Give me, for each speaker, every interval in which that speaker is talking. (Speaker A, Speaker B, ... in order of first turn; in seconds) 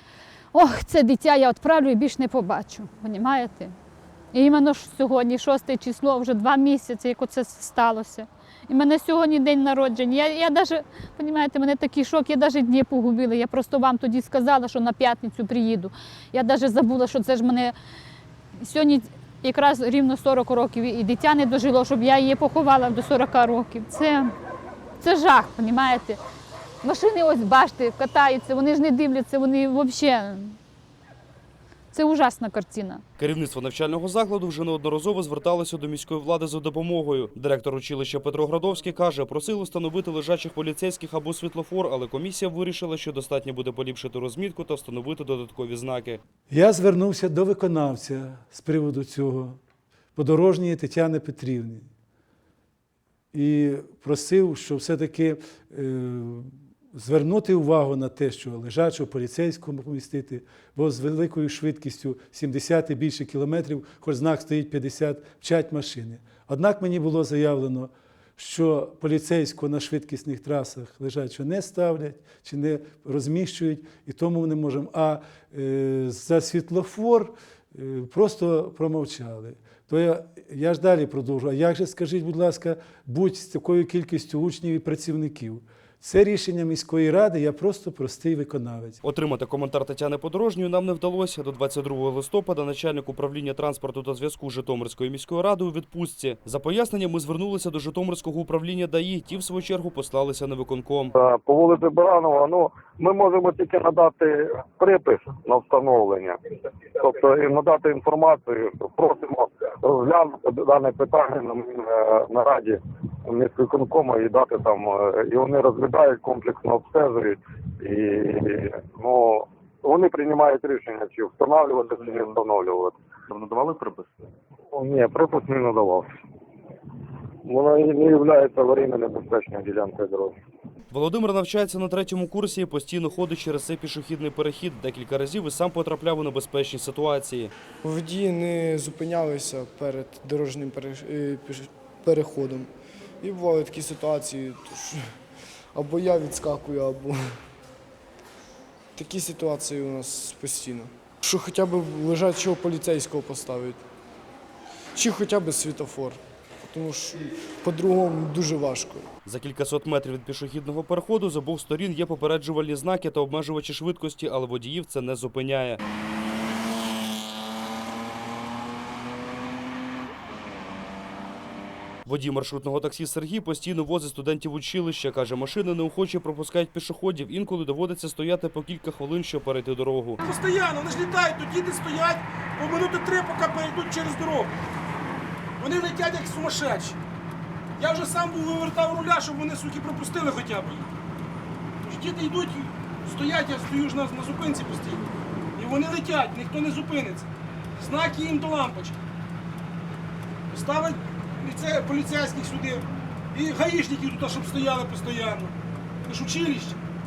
Speaker A: 0.5-3.7, 4.3-17.7, 18.6-24.3, 25.0-26.2, 26.8-30.6, 31.9-33.0
Speaker B: 33.2-46.2, 89.0-101.1, 130.9-137.5, 159.2-165.8, 172.1-180.2
Speaker C: 46.5-49.6, 50.1-51.9, 53.3-89.0
Speaker D: 101.2-106.4, 107.0-124.0, 124.7-126.1, 127.5-130.4
Speaker E: 137.8-142.7, 143.2-145.0, 145.7-147.4, 149.0-153.8, 154.9-159.1
Speaker F: 180.2-184.5, 185.6-187.0, 187.8-190.9, 191.8-195.0, 195.6-199.0, 200.5-205.5, 206.0-206.8